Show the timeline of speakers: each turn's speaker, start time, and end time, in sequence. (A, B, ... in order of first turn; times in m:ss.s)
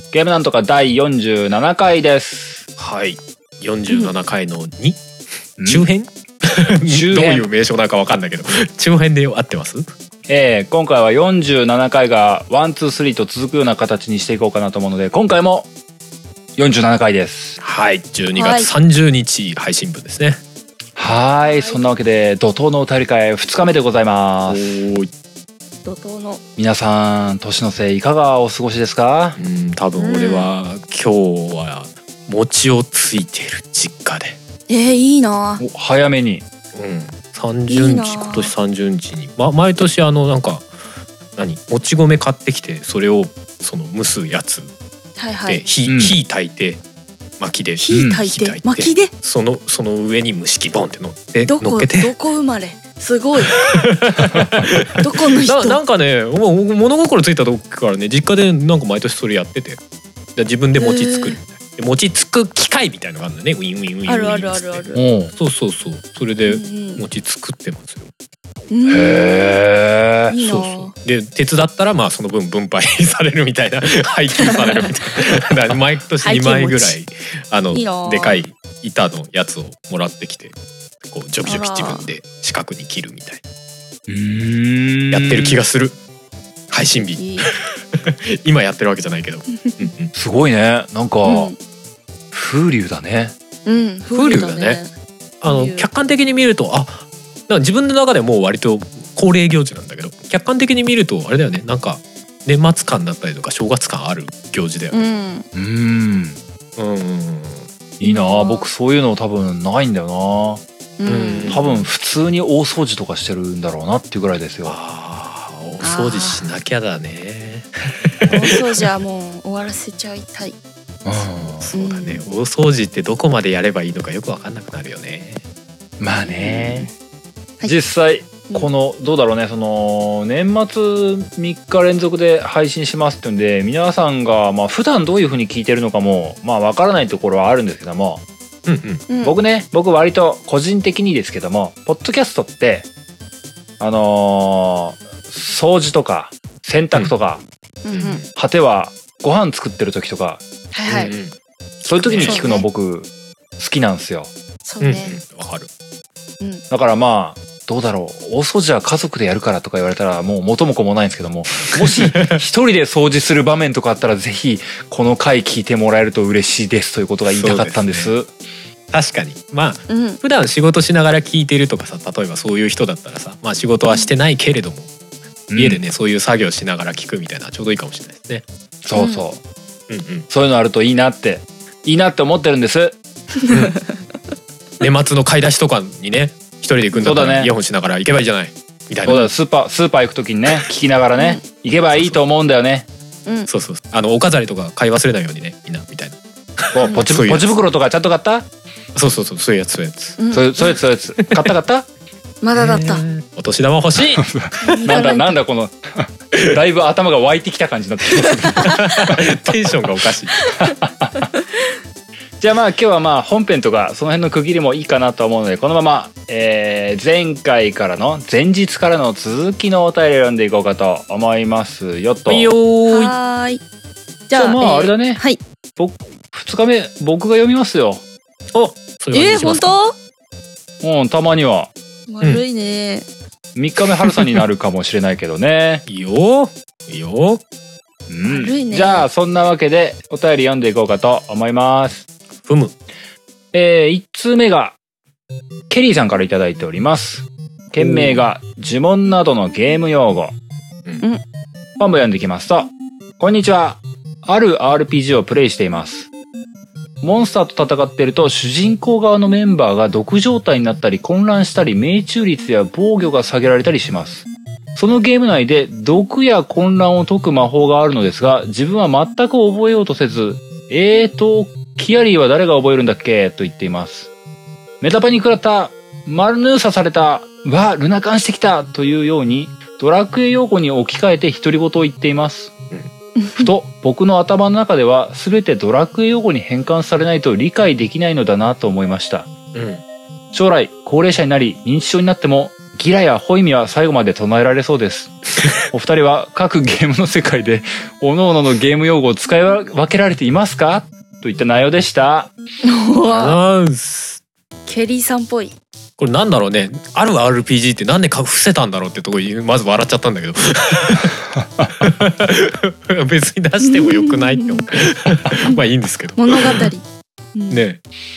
0:00.1-0:02.6 A
0:02.8-0:05.0 B
0:05.6-0:05.9 A
0:05.6-0:09.9 B
0:06.9-0:07.5 A
0:10.3-0:15.7 A
0:16.6-0:17.6 A
0:17.6-0:20.4 B
0:18.4-0:18.7 C
0:21.0-0:24.7 A
0:21.4-0:22.0 C
0:24.5-0:25.1 B
0:25.8-0:26.4 C
0:26.6-0:29.4 A
0:29.4-0:34.4 B
0:29.9-0:30.5 C
0:34.7-0:35.6 C
0:35.6-0:36.4 A
0:36.7-0:40.7 B
0:37.7-0:38.5 C
0:41.4-0:44.7 B
0:45.2-0:45.6 C
0:45.4-0:46.8 B
0:45.9-0:46.2 A
0:47.4-0:52.1 B
0:47.8-0:49.1 C
0:47.9-0:48.2 A
0:51.5-0:53.8 C
0:53.5-0:59.8 B
0:54.3-0:54.6 A
0:55.0-0:55.8 C
1:00.4-1:08.1 B
1:00.8-1:01.4 C
1:04.1-1:05.0 C
1:04.9-1:05.3 A
1:06.5-1:07.0 C
1:08.7-1:09.5 C
1:08.8-1:10.4 A
1:10.3-1:10.9 C
1:10.4-1:20.5 B
1:14.4-1:14.9 C
1:16.2-1:17.0 C
1:17.7-1:18.4 C
1:21.0-1:23.4 B
1:21.4-1:22.1 C
1:24.1-1:25.6 A
1:25.1-1:26.0 B
1:26.7-1:30.1 B
1:27.2-1:27.5 C
1:30.1-1:31.5 A
1:31.2-1:31.6 C
1:32.3-1:33.3 A
1:33.6-1:34.9 C
1:34.1-1:34.8 B
1:35.4-1:45.0 B
1:35.4-1:35.9 C
1:44.9-1:45.4 C
1:45.5-1:46.4 A
1:46.8-1:47.7 B
1:48.0-1:50.6 A
1:48.0-1:48.7 C
1:51.0-1:51.6 C
1:51.0-1:51.9 B
1:51.5-1:54.8 A
1:54.6-1:58.8 B
1:55.8-1:56.4 C
1:58.3-2:00.6 C
2:01.0-2:01.6 A
2:01.2-2:05.4 B
2:01.7-2:02.2 C
2:06.0-2:06.9 A
2:06.2-2:06.9 C
2:07.6-2:18.2 A
2:18.6-2:19.1 B
2:19.1-2:19.4 C
2:19.2-2:22.9 A
2:23.8-2:27.4 A
2:27.8-2:28.2 C
2:27.9-2:28.3 B
2:28.3-2:30.4 A
2:30.7-2:31.1 C
2:30.9-2:31.3 B
2:31.8-2:34.3 A
2:31.9-2:32.4 B
2:32.2-2:32.7 C
2:34.6-2:35.2 C
2:34.8-2:35.7 B
2:36.7-2:48.3 A
2:41.8-2:42.4 B
2:47.3-2:48.1 B
2:48.9-2:54.9 B
2:49.9-2:50.2 C
2:55.5-2:55.8 A
2:55.6-2:58.4 B
2:58.8-2:59.4 A
2:58.9-2:59.2 C
2:59.9-3:00.3 B
3:00.3-3:03.0 A
3:03.5-3:03.8 B
3:04.8-3:09.2 B
3:07.0-3:07.5 A
3:09.0-3:12.9 A
3:11.1-3:11.4 C
3:11.9-3:12.2 B
3:13.5-3:17.5 B
3:16.7-3:18.5 A
3:18.9-3:20.2 B
3:20.2-3:20.6 C
3:20.3-3:21.9 A
3:21.2-3:21.5 B
3:22.4-3:23.0 C
3:22.6-3:25.0 B
3:24.2-3:29.3 A
3:24.6-3:25.4 C
3:28.3-3:29.1 C
3:28.6-3:30.4 B
3:30.4-3:31.4 C
3:30.6-3:31.2 A
3:32.4-3:42.5 A
3:42.3-3:43.2 B
3:42.9-3:43.6 C
3:44.3-3:45.4 C
3:44.3-3:45.2 A
3:45.8-3:48.0 A
3:48.5-3:49.8 B
3:49.1-3:49.9 C
3:50.8-3:51.7 A
3:52.1-3:53.0 C
3:53.6-3:55.8 A
3:55.9-3:57.4 B
3:58.1-4:02.0 A
3:58.3-3:59.1 C
4:02.4-4:02.7 B
4:03.5-4:04.8 A
4:05.7-4:10.3 A
4:11.8-4:16.1 A
4:17.0-4:24.2 A
4:24.8-4:34.1 A
4:34.8-4:42.5 A
4:43.2-4:43.5 C
4:43.4-4:49.3 A
4:49.5-4:49.8 B
4:50.3-4:55.1 A
4:55.7-5:02.3 A
5:02.6-5:03.4 C
5:03.0-5:04.2 B
5:04.7-5:05.6 C
5:06.0-5:11.1 B
5:11.3-5:11.9 A
5:11.8-5:16.6 B
5:13.6-5:14.6 C
5:16.2-5:17.6 C
5:17.5-5:17.8 B